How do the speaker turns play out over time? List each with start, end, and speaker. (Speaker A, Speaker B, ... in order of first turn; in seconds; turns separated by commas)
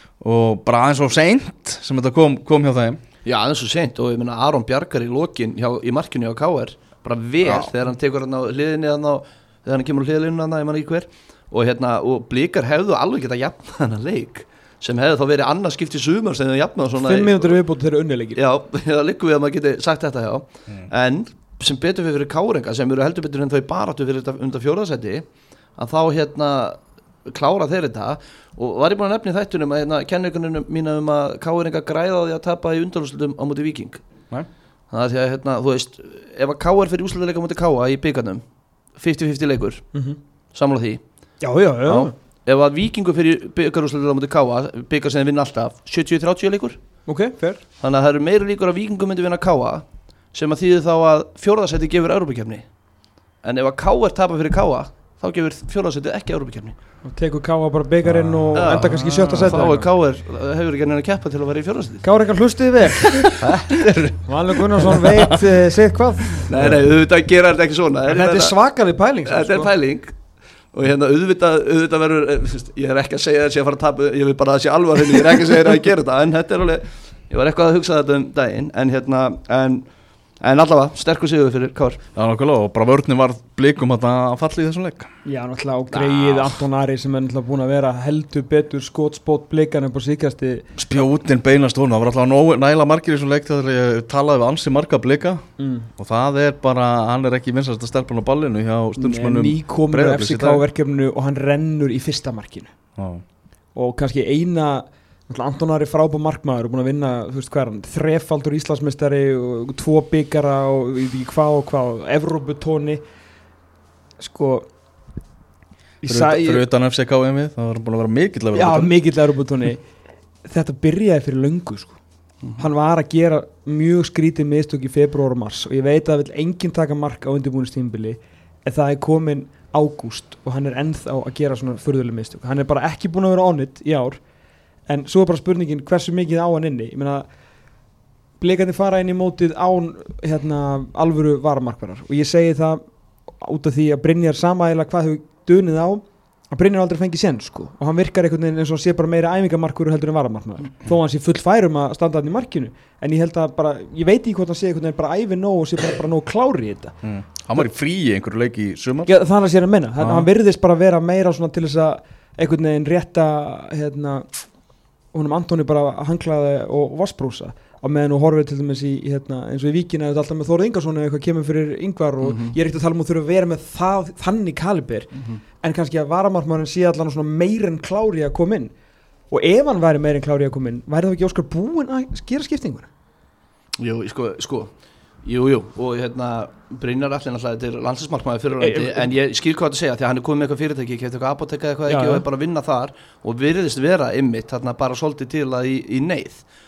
Speaker A: 0.2-3.0, Speaker B: 3.2-17.6, Speaker A: 7.4-7.7, Speaker C: 17.0-18.4, Speaker B: 18.3-25.2, Speaker B: 25.8-34.0, Speaker B: 34.9-38.4, Speaker B: 39.0-39.8, Speaker C: 39.9-40.2, Speaker B: 40.5-41.0, Speaker C: 41.4-42.1, Speaker B: 41.9-46.8, Speaker C: 47.1-47.6, Speaker B: 47.8-52.6, Speaker B: 53.4-56.8, Speaker C: 57.0-59.9, Speaker A: 58.0-59.6, Speaker B: 58.5-62.0, Speaker C: 62.0-63.4, Speaker B: 63.0-65.0, Speaker A: 63.8-64.1, Speaker C: 64.2-66.7, Speaker A: 65.0-65.4, Speaker B: 66.4-68.5, Speaker C: 68.1-69.7, Speaker B: 69.2-70.1, Speaker B: 70.7-79.8, Speaker B: 80.4-82.0, Speaker A: 82.1-85.1, Speaker C: 85.2-90.7, Speaker B: 85.9-86.6, Speaker A: 90.8-95.4, Speaker C: 95.6-95.9, Speaker A: 96.0-100.6, Speaker C: 99.0-102.7, Speaker A: 103.0-103.2, Speaker C: 103.7-113.0, Speaker C: 114.2-114.7, Speaker C: 116.0-116.6, Speaker A: 116.0-118.9, Speaker C: 118.5-119.8, Speaker C: 120.5-122.0, Speaker C: 122.6-134.2, Speaker C: 134.9-137.2, Speaker C: 138.4-142.8, Speaker C: 143.4-156.9, Speaker A: 157.0-159.1, Speaker C: 159.1-164.3, Speaker A: 160.0-160.3, Speaker C: 165.1-178.7, Speaker B: 172.2-172.6, Speaker B: 175.1-175.4, Speaker C: 179.3-182.9, Speaker B: 183.8-184.7, Speaker B: 185.2-196.4, Speaker C: 188.6-189.1, Speaker C: 191.9-192.2